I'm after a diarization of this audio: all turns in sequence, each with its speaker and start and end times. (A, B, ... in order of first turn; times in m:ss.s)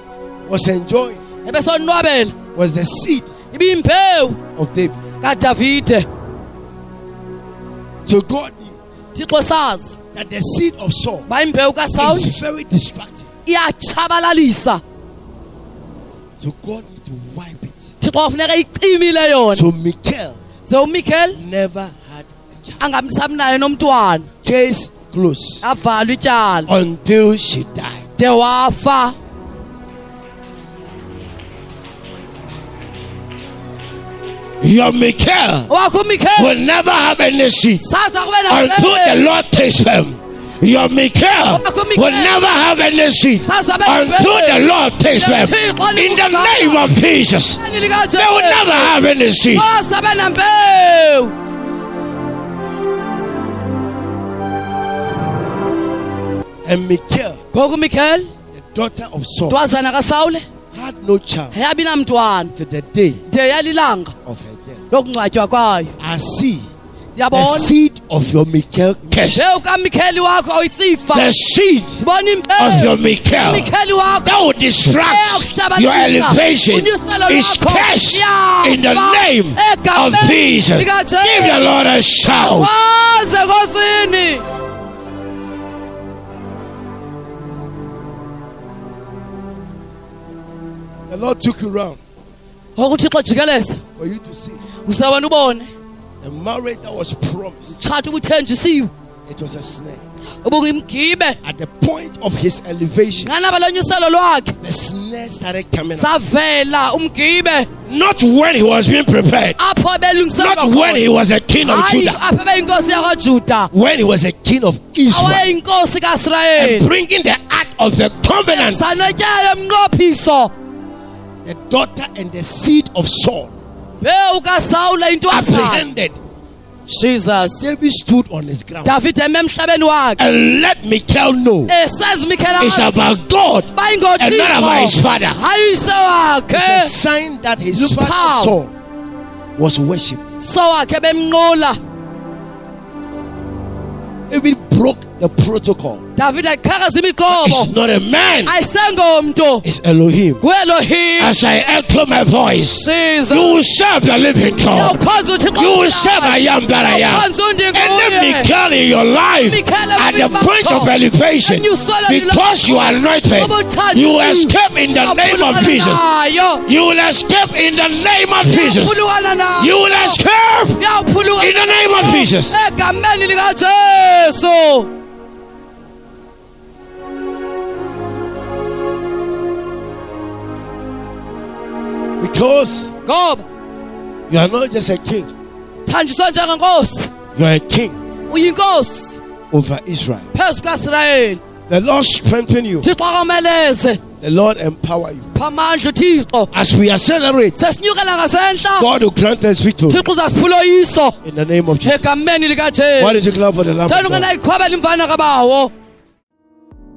0:00.5-0:01.2 A
0:01.4-0:02.4 B
0:02.5-0:03.3 A
0:03.5-0:04.4 B
0:04.6-0:05.0 A
0:05.2-0:06.1 B
0:08.0-0:08.8 A
0:09.2-0:10.0 B
0:10.1-0:11.3 A
0:11.3-0:12.3 B
0:12.0-0:13.3 A
0:13.5-0:14.8 B
0:16.4-0:17.9 A
0:18.0-0:19.7 B
0:19.5-0:20.4 A
0:20.7-0:21.4 B
0:21.3-0:22.8 A
0:22.8-0:24.3 B
0:24.4-0:25.6 A
0:25.6-0:26.7 B
0:26.7-0:28.0 A
0:28.2-0:29.2 B
0:34.6-0:35.7 A
0:35.7-0:36.6 B
0:36.4-0:37.9 A
0:37.8-0:39.3 B
0:38.5-0:47.6 A
0:41.4-0:42.4 B
0:43.4-0:44.6 B
0:45.2-0:46.9 B
0:47.6-0:49.0 B
0:48.2-0:49.7 A
0:49.5-0:51.3 B
0:56.6-0:57.4 A
0:57.5-0:58.3 B
0:58.5-0:59.6 A
0:59.5-1:00.4 B
1:00.7-1:01.6 A
1:01.5-1:02.5 B
1:02.6-1:03.2 A
1:03.3-1:04.1 B
1:04.2-1:04.8 A
1:04.9-1:05.9 B
1:06.0-1:06.7 A
1:07.2-1:07.7 B
1:07.3-1:09.5 A
1:09.2-1:11.3 B
1:11.1-1:12.0 A
1:12.0-1:24.4 B
1:12.6-1:13.7 A
1:14.2-1:22.7 A
1:31.1-1:32.0 A
1:32.8-1:33.8 B
1:34.0-1:34.6 A
1:34.8-1:35.7 B
1:36.2-1:37.7 A
1:37.7-1:38.9 B
1:39.3-1:40.0 A
1:40.4-1:41.4 B
1:41.4-1:43.3 A
1:43.2-1:44.6 B
1:44.6-1:46.2 A
1:46.0-1:47.7 B
1:47.9-1:49.6 A
1:49.6-1:51.0 B
1:50.4-1:52.2 A
1:51.6-1:53.7 B
1:53.7-1:55.5 A
1:55.1-1:56.9 B
1:56.6-1:58.9 A
1:58.5-2:00.5 B
2:01.4-2:03.5 A
2:04.0-2:05.8 B
2:05.3-2:06.2 A
2:06.9-2:07.7 B
2:07.5-2:09.0 A
2:08.8-2:10.2 B
2:10.2-2:11.7 A
2:11.7-2:13.0 B
2:12.6-2:15.4 A
2:13.7-2:16.9 B
2:16.5-2:18.7 A
2:17.7-2:18.6 B
2:19.6-2:20.2 A
2:20.4-2:21.8 B
2:24.3-2:26.0 A
2:26.2-2:27.7 B
2:27.3-2:28.6 A
2:28.5-2:29.7 B
2:29.6-2:30.4 A
2:30.4-2:31.4 B
2:31.2-2:35.0 A
2:32.7-2:33.6 B
2:34.4-2:38.5 B
2:35.5-2:46.0 A
2:39.4-2:40.9 B
2:41.4-2:46.6 B
2:46.7-2:49.0 A
2:48.4-2:50.2 B
2:49.6-2:50.8 A
2:50.8-2:54.9 B
2:51.4-2:52.6 A
3:02.2-3:02.9 A
3:03.1-3:03.4 B
3:04.3-3:05.3 A
3:05.9-3:07.1 B
3:07.4-3:08.0 A
3:08.3-3:09.2 B
3:09.5-3:10.3 A
3:10.3-3:11.4 B
3:11.7-3:12.9 A
3:12.8-3:14.0 B
3:14.2-3:15.3 A
3:15.4-3:16.5 B
3:16.5-3:17.6 A
3:17.6-3:18.9 B
3:18.8-3:20.0 A
3:19.9-3:21.2 B
3:21.2-3:22.2 A
3:21.8-3:23.3 B
3:23.0-3:24.3 A
3:23.9-3:25.7 B